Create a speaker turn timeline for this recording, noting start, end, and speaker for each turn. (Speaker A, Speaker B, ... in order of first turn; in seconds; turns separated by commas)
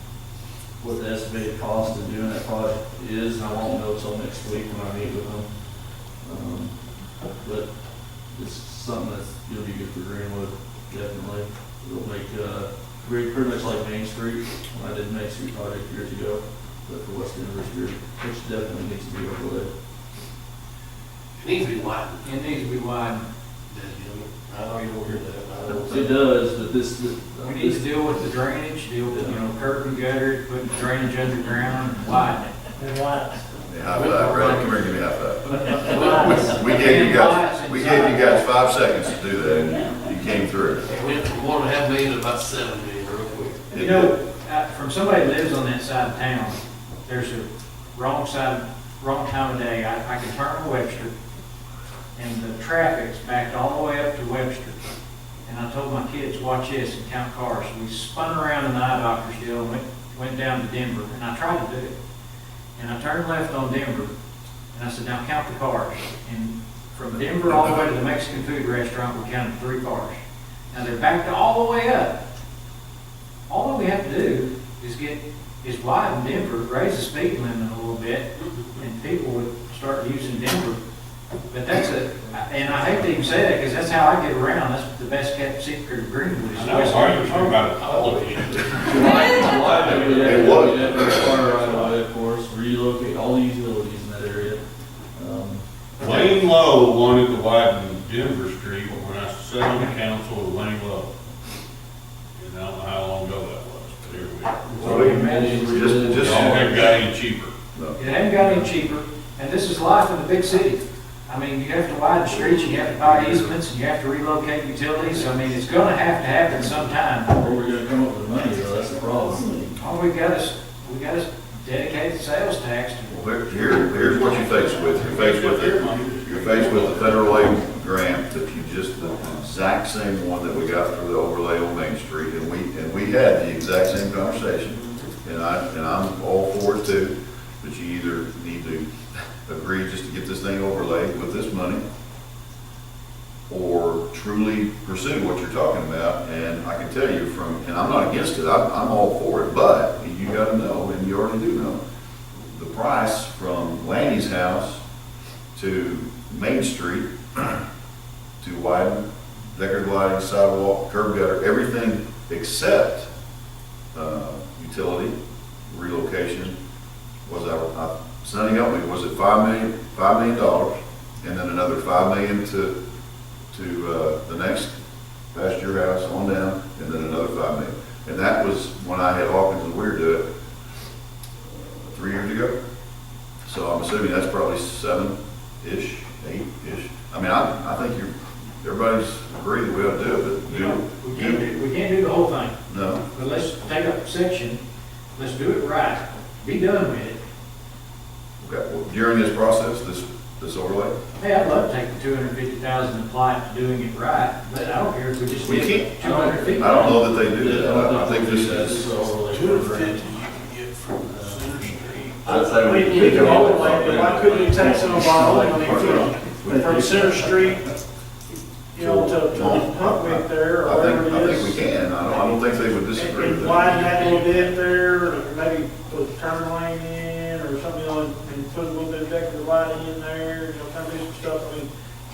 Speaker A: 0.8-5.5, Speaker A: 6.2-6.8, Speaker A: 7.4-7.7, Speaker A: 8.3-19.7, Speaker B: 21.4-22.7, Speaker C: 22.2-23.2, Speaker B: 23.7-26.2, Speaker A: 25.8-28.1, Speaker C: 27.4-32.5, Speaker A: 29.1-29.4, Speaker D: 32.8-33.4, Speaker E: 33.7-40.9, Speaker B: 33.9-34.8, Speaker B: 35.4-37.2, Speaker C: 36.7-38.5, Speaker B: 40.9-43.6, Speaker E: 43.7-44.2, Speaker C: 43.7-51.1, Speaker C: 52.1-54.8, Speaker C: 55.4-61.9, Speaker C: 62.8-64.1, Speaker C: 64.7-70.2, Speaker C: 70.7-72.2, Speaker C: 73.5-80.8, Speaker B: 78.4-78.7, Speaker C: 81.5-87.6, Speaker F: 86.5-89.0, Speaker A: 88.8-94.6, Speaker B: 89.0-90.5, Speaker E: 90.2-91.4, Speaker A: 95.1-95.6, Speaker F: 96.0-101.1, Speaker F: 102.4-104.7, Speaker C: 104.7-106.4, Speaker A: 104.7-106.9, Speaker E: 104.8-106.6, Speaker F: 106.2-107.5, Speaker E: 107.7-108.0, Speaker C: 108.0-117.3, Speaker A: 108.4-108.7, Speaker A: 117.3-119.8, Speaker C: 119.8-123.1, Speaker E: 123.1-138.9, Speaker C: 123.7-125.2, Speaker F: 125.0-127.1, Speaker B: 134.7-135.1, Speaker E: 139.4-141.8, Speaker E: 143.5-151.8, Speaker E: 152.5-154.8, Speaker E: 155.5-157.6, Speaker E: 158.4-163.1, Speaker E: 163.9-165.1, Speaker E: 165.7-166.5, Speaker E: 167.2-172.7, Speaker E: 173.5-174.7, Speaker E: 175.3-180.2, Speaker E: 181.6-182.6, Speaker E: 183.4-191.5, Speaker C: 190.5-192.5, Speaker E: 192.7-193.0, Speaker C: 193.1-194.6, Speaker C: 195.2-197.2, Speaker E: 198.4-200.9, Speaker C: 201.2-207.0, Speaker E: 205.3-206.0, Speaker A: 206.0-210.1, Speaker E: 206.6-208.9, Speaker B: 209.3-215.9, Speaker A: 211.0-211.8, Speaker E: 212.2-213.8, Speaker D: 212.4-217.6, Speaker A: 212.9-217.6, Speaker D: 218.7-221.6, Speaker E: 218.8-223.8, Speaker D: 222.9-231.7, Speaker B: 223.6-224.5